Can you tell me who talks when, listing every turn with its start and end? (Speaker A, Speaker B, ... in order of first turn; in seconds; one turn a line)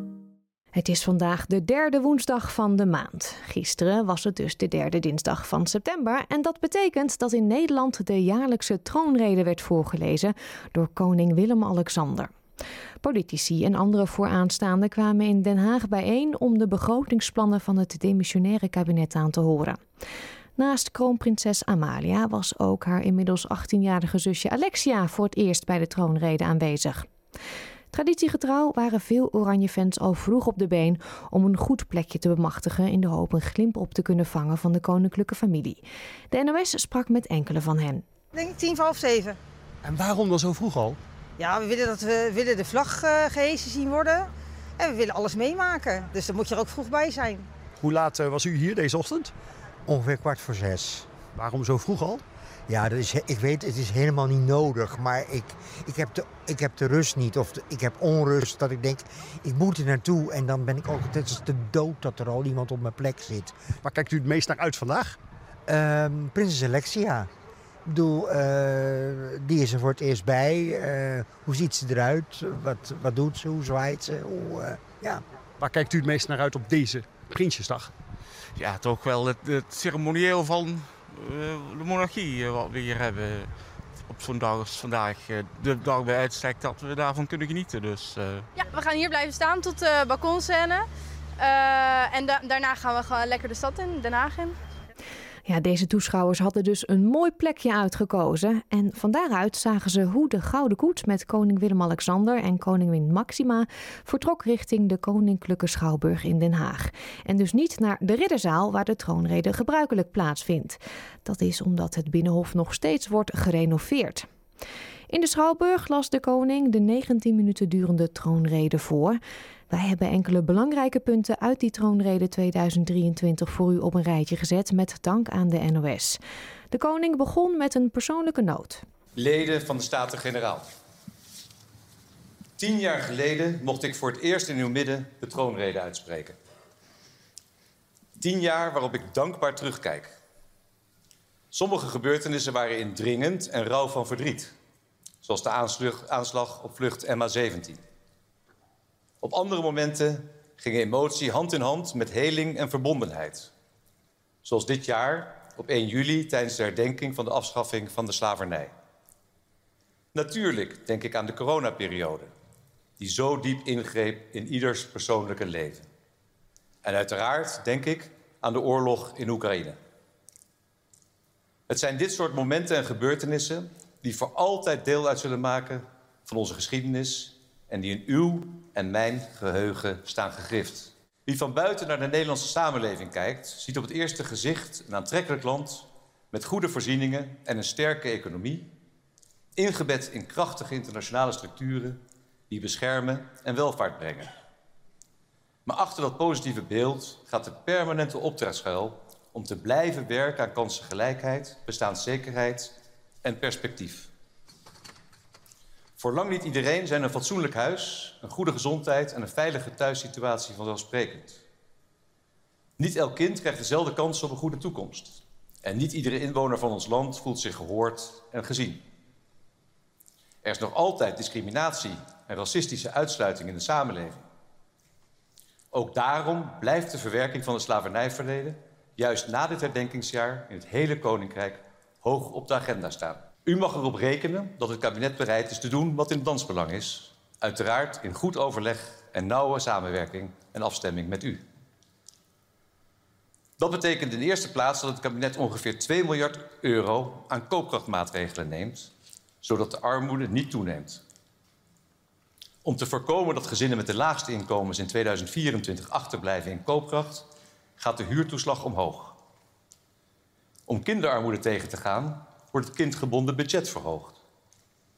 Speaker A: 0.7-12.3
Speaker A: 13.0-19.8
Speaker A: 20.6-27.1
Speaker A: 27.9-38.0
Speaker B: 38.3-39.4
Speaker C: 39.8-41.0
Speaker B: 41.4-47.5
Speaker C: 47.8-49.3
Speaker D: 49.9-51.1
Speaker C: 51.3-52.2
Speaker D: 52.7-63.6
Speaker C: 63.8-65.2
Speaker D: 65.7-67.3
Speaker D: 67.9-75.2
Speaker C: 75.6-77.9
Speaker E: 78.6-83.5
Speaker E: 84.1-88.5
Speaker F: 88.5-90.9
Speaker F: 91.4-94.6
Speaker A: 95.5-114.2
Speaker A: 115.1-119.2
Speaker A: 119.7-126.2
Speaker A: 126.7-128.8
Speaker G: 129.2-130.6
Speaker G: 132.6-136.3
Speaker G: 138.2-140.1
Speaker G: 141.5-144.5
Speaker G: 145.2-147.8
Speaker G: 149.2-153.5
Speaker G: 154.4-158.7
Speaker G: 160.1-162.3
Speaker G: 163.0-165.9
Speaker G: 166.8-169.8
Speaker G: 171.7-188.7
Speaker G: 189.6-192.0
Speaker G: 192.5-194.3
Speaker G: 195.7-204.1
Speaker G: 206.0-211.4
Speaker G: 212.8-218.8
Speaker G: 220.4-224.2
Speaker G: 225.7-241.4
Speaker G: 243.6-248.9
Speaker G: 249.4-251.0
Speaker G: 252.6-257.3
Speaker G: 257.8-259.2
Speaker G: 260.7-264.2